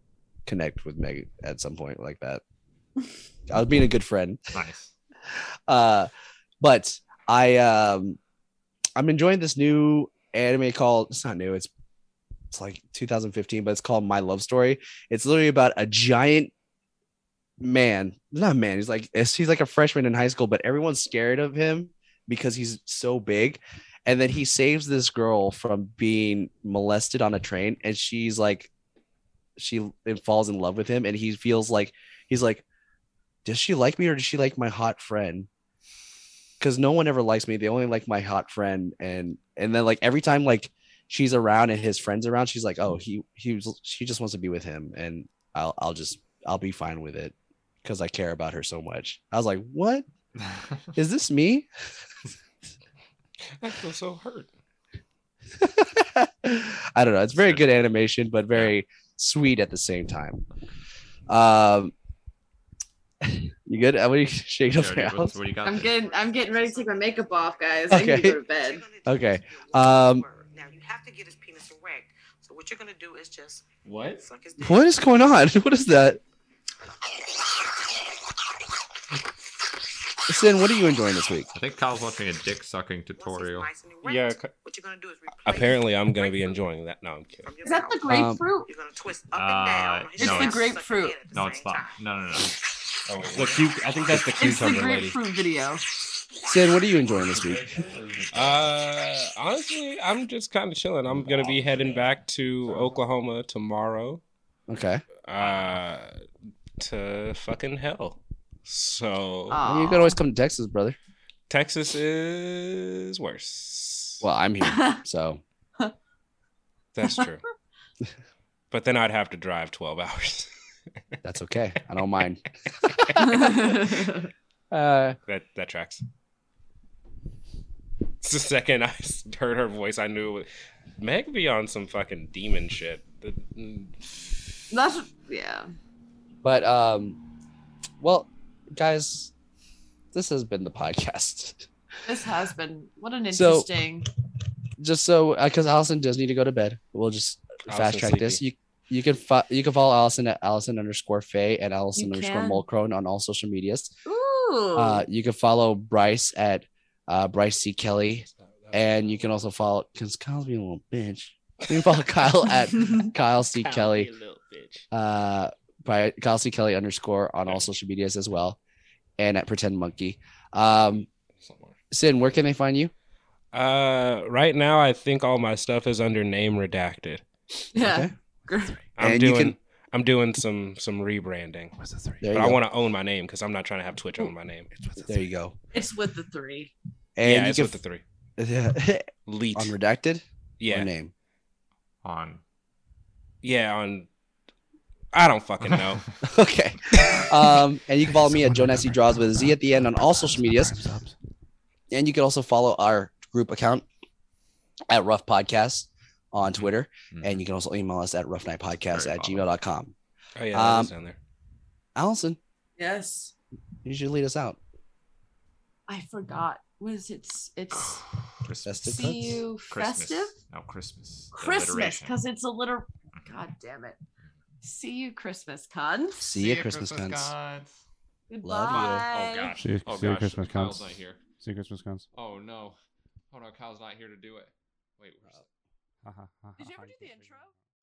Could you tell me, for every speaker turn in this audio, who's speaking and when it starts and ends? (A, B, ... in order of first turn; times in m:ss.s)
0:00.5-0:02.4 A
0:03.5-0:04.4 A
0:04.5-0:04.9 B
0:05.7-0:06.1 A
0:06.6-0:08.2 A
0:09.0-0:11.7 A
0:12.5-0:16.5 A
0:17.6-0:28.7 A
0:29.6-0:32.6 A
0:33.4-0:35.5 A
0:36.6-0:50.0 A
0:51.0-0:51.7 A
0:53.6-0:54.5 C
0:55.6-1:00.4 A
0:57.4-0:57.7 B
1:01.3-1:01.9 A
1:03.2-1:05.4 A
1:04.7-1:06.0 B
1:05.6-1:08.8 D
1:05.6-1:13.7 E
1:07.9-1:08.4 A
1:09.0-1:10.2 A
1:14.2-1:15.4 E
1:14.6-1:16.2 A
1:20.3-1:21.5 A
1:21.5-1:23.7 B
1:23.2-1:26.6 E
1:24.1-1:24.5 C
1:25.4-1:27.5 C
1:27.4-1:32.0 E
1:27.6-1:28.7 D
1:28.1-1:28.4 A
1:29.3-1:30.7 B
1:30.2-1:31.2 D
1:31.3-1:33.7 B
1:33.3-1:35.2 C
1:34.4-1:35.8 D
1:36.5-1:37.8 A
1:37.2-1:38.7 B
1:38.3-1:44.2 C
1:41.4-1:41.8 B
1:44.7-1:45.0 A
1:45.2-1:46.2 C
1:45.4-1:45.8 B
1:46.8-1:49.7 C
1:49.5-1:50.2 D
1:49.6-1:51.0 A
1:51.5-1:54.2 C
1:54.2-1:55.4 A
1:54.6-1:55.0 D
1:56.9-1:57.4 C
1:58.7-2:00.5 C
2:01.2-2:02.4 A
2:02.9-2:03.4 C
2:03.0-2:03.6 A
2:03.2-2:04.3 D
2:04.7-2:05.2 A
2:05.3-2:06.0 C
2:08.2-2:14.2 C
2:14.7-2:15.7 D
2:16.4-2:17.2 A
2:18.0-2:19.3 A
2:20.1-2:21.7 A
2:22.0-2:24.1 D
2:23.3-2:23.7 A
2:24.8-2:33.9 A
2:27.7-2:28.4 C
2:32.0-2:32.6 D
2:34.0-2:35.1 D
2:34.7-2:44.1 A
2:38.2-2:39.1 C
2:43.5-2:44.8 C
2:44.9-2:48.6 A
2:49.2-2:51.1 A
2:51.4-2:51.8 B
2:51.9-2:52.9 A
2:53.5-2:57.2 C
2:57.7-2:58.8 D
2:57.8-2:58.1 A
2:59.0-3:01.8 C
2:59.0-2:59.6 A
3:01.8-3:02.2 F
3:02.2-3:02.6 A
3:02.3-3:04.7 C
3:04.7-3:05.2 F
3:05.0-3:05.6 A
3:05.7-3:06.7 D
3:07.2-3:07.8 A
3:07.2-3:08.0 C
3:08.4-3:11.1 A
3:09.3-3:09.7 C
3:10.6-3:10.9 C
3:12.0-3:12.4 B
3:13.4-3:14.1 C
3:15.1-3:16.0 C
3:16.2-3:20.8 A
3:18.2-3:21.2 F
3:21.9-3:23.8 A
3:24.9-3:29.9 A
3:27.1-3:27.4 B
3:28.9-3:29.5 B
3:30.4-3:31.2 C
3:30.5-3:30.9 A
3:32.0-3:32.4 A
3:32.8-3:33.3 D
3:33.8-3:34.6 A
3:35.9-3:38.0 D
3:38.4-3:39.1 B
3:38.6-3:39.4 A
3:38.9-3:40.4 D
3:39.7-3:42.2 B
3:41.3-3:44.0 D
3:44.6-3:46.2 D
3:46.2-3:47.3 A
3:46.3-3:47.8 B
3:48.3-3:49.6 D
3:48.4-3:49.1 A
3:48.7-3:51.2 B
3:49.6-3:52.1 F
3:52.1-3:52.8 B
3:53.3-3:55.5 B
3:56.0-3:57.1 F
3:56.6-3:57.5 D